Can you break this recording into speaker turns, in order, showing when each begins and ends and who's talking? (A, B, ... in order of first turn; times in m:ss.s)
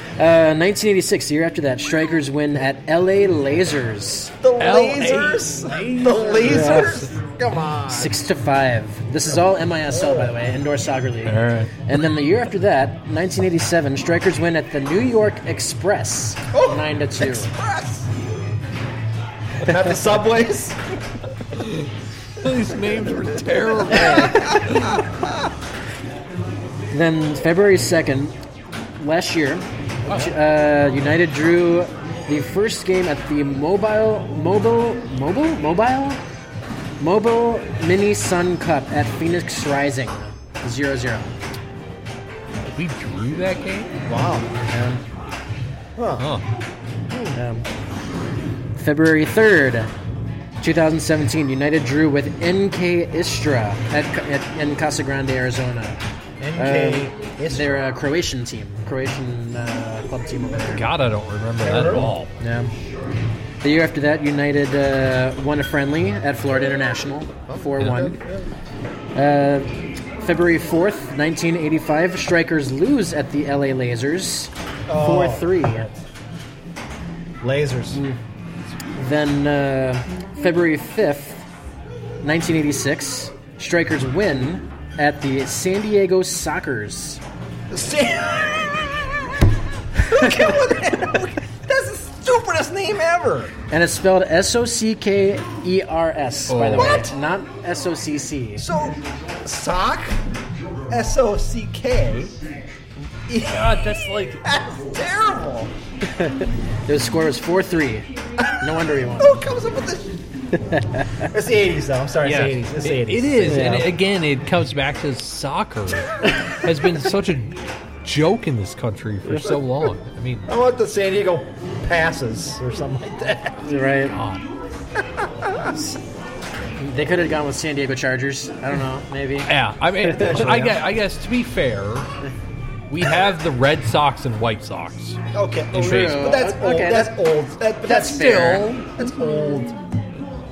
0:00.2-0:04.3 A
0:04.4-0:08.1 B
0:04.6-0:07.1 C
0:06.4-0:07.0 A
0:07.9-0:17.5 A
0:09.9-0:10.4 B
0:11.2-0:11.7 C
0:16.5-0:18.1 B
0:19.6-0:20.8 B
0:21.5-0:25.0 C
0:23.9-0:25.4 B
0:26.9-0:28.4 A
0:29.0-0:36.2 A
0:30.0-0:30.3 C
0:37.0-0:41.3 A
0:42.7-0:44.0 C
0:44.1-0:44.5 B
0:44.7-0:45.0 A
0:46.0-0:46.3 B
0:46.2-0:46.4 C
0:47.1-0:47.4 B
0:47.3-0:47.6 A
0:48.7-0:49.9 A
0:50.6-0:56.0 A
0:56.4-0:57.8 B
0:56.6-1:00.9 A
1:00.7-1:02.3 C
1:01.6-1:02.1 B
1:02.4-1:02.7 A
1:03.6-1:08.2 A
1:07.5-1:08.5 B
1:09.1-1:15.9 A
1:14.9-1:15.6 B
1:17.4-1:18.0 B
1:17.9-1:18.2 A
1:18.9-1:21.4 A
1:22.2-1:27.2 A
1:27.7-1:29.2 B
1:29.9-1:33.5 B
1:30.2-1:30.4 A
1:33.7-1:38.7 A
1:36.5-1:37.0 C
1:36.7-1:37.2 B
1:38.6-1:40.2 B
1:40.9-1:42.4 B
1:43.3-1:45.7 B
1:43.4-1:44.4 C
1:46.0-1:48.1 A
1:48.6-1:49.4 A
1:49.1-1:50.2 B
1:50.7-1:51.2 A
1:51.3-1:53.9 B
1:52.2-2:00.5 C
1:53.4-1:53.9 A
2:00.5-2:03.7 B
2:03.6-2:04.2 A
2:04.1-2:04.4 C
2:05.2-2:05.7 B
2:06.8-2:09.5 A
2:09.4-2:12.1 C
2:10.0-2:10.7 A
2:10.1-2:10.8 B
2:12.9-2:15.2 C
2:15.3-2:19.7 B
2:15.7-2:16.4 C
2:15.8-2:17.2 A
2:17.8-2:19.6 C
2:17.9-2:18.7 A